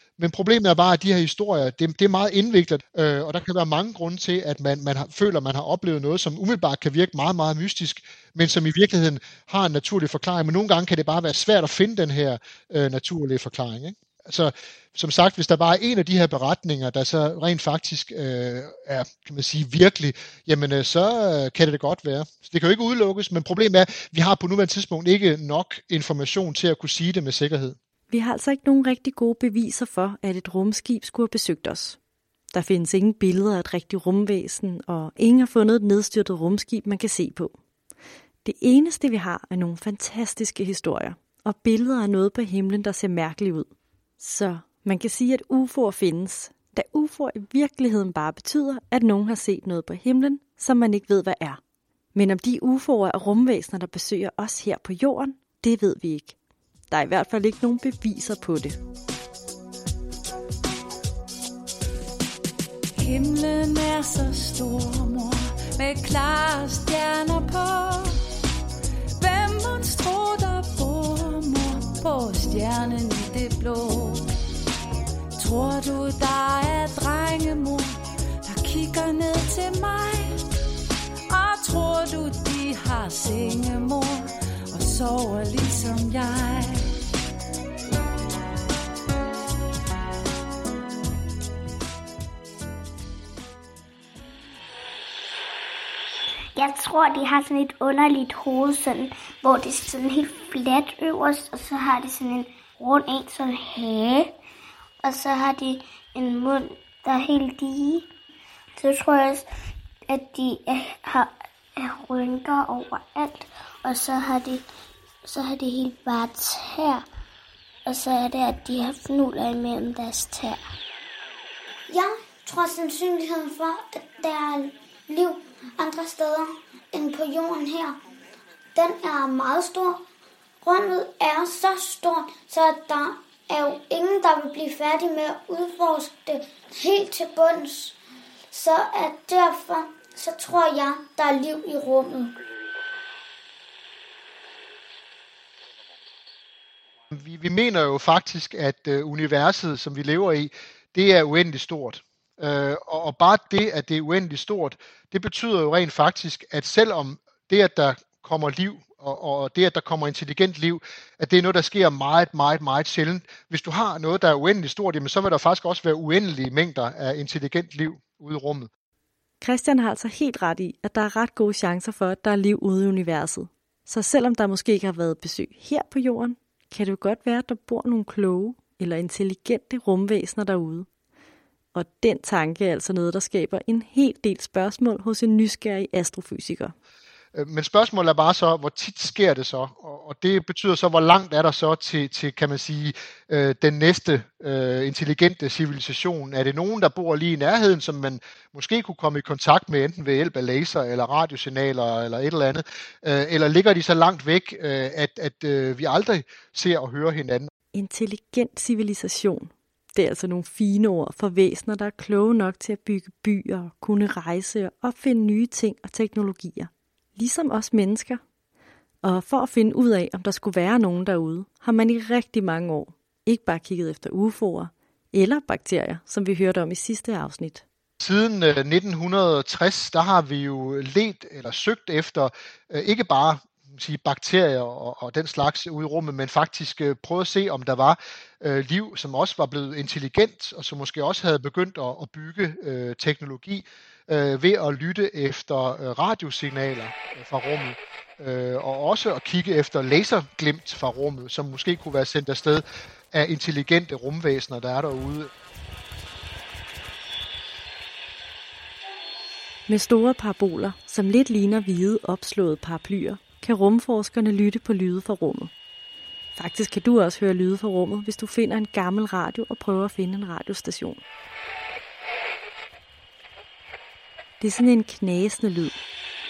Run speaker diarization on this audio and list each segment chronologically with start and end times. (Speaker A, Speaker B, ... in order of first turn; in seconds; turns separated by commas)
Speaker A: 0.2-27.8, Speaker B: 28.1-32.0, Speaker B: 32.5-37.5, Speaker B: 38.4-51.6, Speaker B: 52.1-56.4, Speaker B: 56.9-58.8, Speaker C: 63.0-68.2, Speaker C: 69.1-74.3, Speaker C: 75.3-80.4, Speaker C: 81.3-86.9, Speaker D: 96.5-104.3, Speaker D: 105.0-108.0, Speaker D: 108.8-109.4, Speaker D: 110.1-114.6, Speaker D: 115.2-117.0, Speaker D: 117.8-120.6, Speaker E: 121.9-128.0, Speaker E: 128.7-130.0, Speaker E: 130.6-137.9, Speaker E: 138.5-142.4, Speaker A: 147.1-168.7, Speaker B: 169.4-180.9, Speaker B: 181.7-186.7, Speaker A: 187.3-207.5, Speaker B: 207.7-218.2, Speaker B: 219.0-227.6, Speaker A: 228.0-255.3, Speaker B: 259.7-265.5, Speaker B: 266.4-271.0, Speaker B: 274.4-275.8